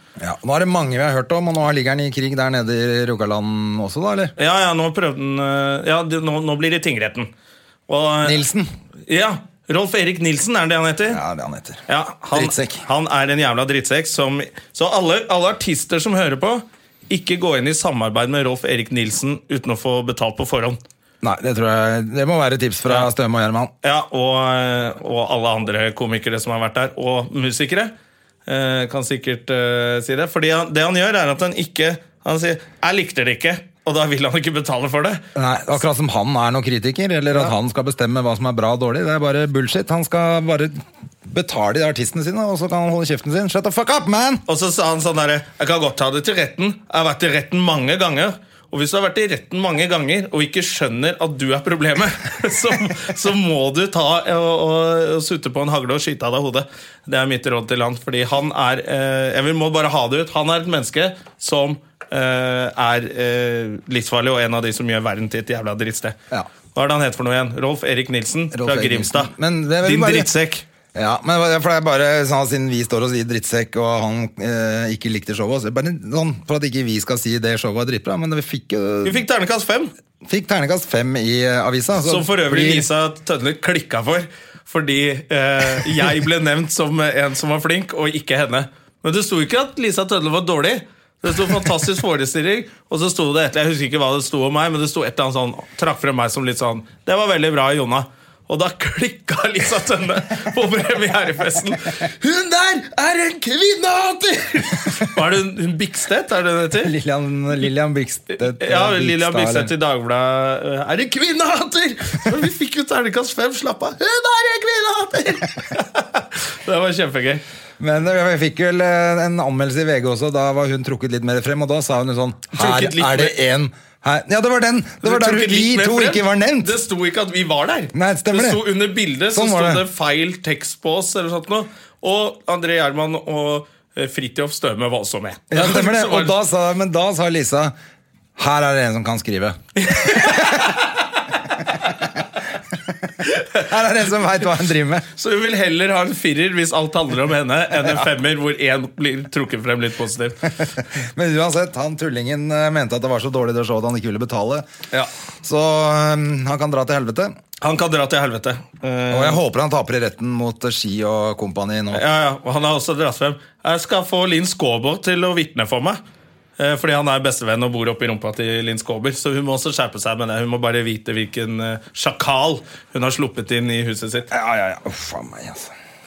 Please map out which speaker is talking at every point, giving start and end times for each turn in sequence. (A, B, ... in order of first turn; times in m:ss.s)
0:00.2-0:04.3 A
0:04.4-0:07.3 B
0:07.9-0:08.4 B
0:08.2-0:08.7 A
0:09.1-0:11.2 B
0:11.1-0:11.8 A
0:11.9-0:20.8 B
0:12.3-0:12.8 A
0:21.2-0:23.7 A
0:23.8-0:27.9 B
0:28.4-0:35.2 B
0:35.3-0:44.4 A
0:44.5-1:06.2 B
1:06.7-1:10.6 B
1:08.5-1:10.3 A
1:10.9-1:19.2 A
1:19.0-1:19.9 B
1:20.2-1:22.9 A
1:22.0-1:46.9 B
1:46.8-1:49.7 A
1:48.4-1:57.4 B
1:57.8-2:06.8 A
2:02.5-2:03.4 B
2:05.0-2:16.4 B
2:07.9-2:08.6 A
2:09.3-2:09.8 A
2:15.5-2:17.7 A
2:18.4-2:20.8 A
2:19.8-2:22.1 B
2:23.2-2:23.7 B
2:23.6-2:25.0 A
2:25.2-2:30.7 B
2:30.6-2:34.6 A
2:35.4-2:37.3 A
2:37.6-2:39.4 B
2:39.1-2:42.0 A
2:41.9-2:46.0 B
2:46.6-2:54.3 B
2:54.3-2:55.7 A